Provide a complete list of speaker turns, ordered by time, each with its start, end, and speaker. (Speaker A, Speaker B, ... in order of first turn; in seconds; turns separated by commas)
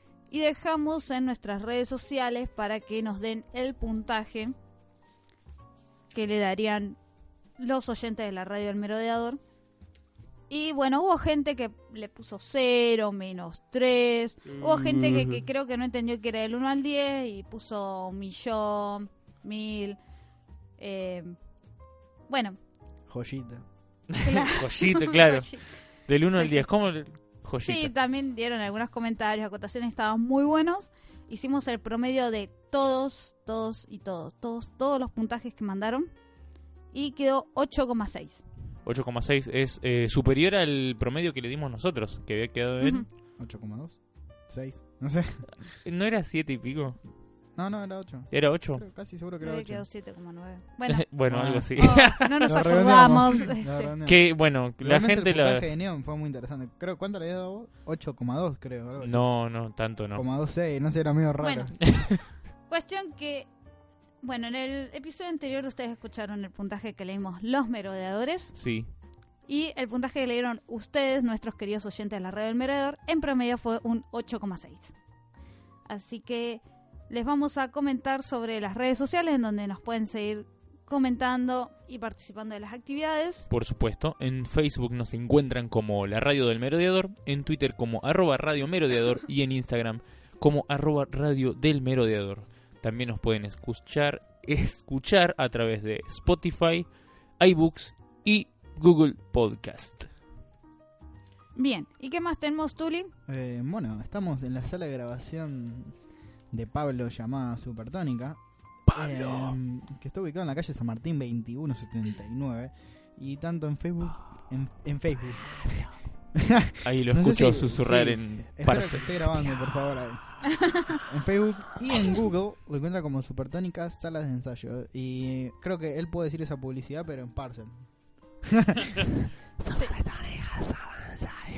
Speaker A: 0.3-4.5, Speaker A: 6.1-7.0, Speaker A: 7.6-9.4, Speaker A: 10.5-20.0, Speaker B: 14.6-15.4, Speaker A: 20.8-21.3, Speaker A: 22.3-22.6, Speaker C: 23.1-23.6, Speaker B: 24.1-27.9, Speaker A: 24.2-25.7, Speaker A: 26.3-26.7, Speaker A: 27.6-36.1, Speaker A: 36.9-38.4, Speaker B: 38.8-43.1, Speaker C: 43.4-45.6, Speaker B: 45.8-47.0, Speaker C: 47.5-49.8, Speaker B: 48.3-48.8, Speaker A: 49.4-51.1, Speaker B: 50.9-52.6, Speaker C: 51.3-59.4, Speaker A: 51.8-53.9, Speaker B: 54.0-55.6, Speaker B: 59.0-60.2, Speaker C: 60.1-61.9, Speaker A: 61.4-61.9, Speaker A: 62.7-63.5, Speaker A: 64.2-68.5, Speaker B: 68.5-68.9, Speaker A: 69.5-74.9, Speaker A: 75.9-83.5, Speaker B: 83.5-100.1, Speaker A: 101.5-103.1, Speaker C: 103.3-106.0, Speaker C: 106.5-129.0, Speaker B: 108.9-109.5, Speaker B: 116.8-119.5, Speaker A: 120.7-121.0, Speaker B: 130.0-130.6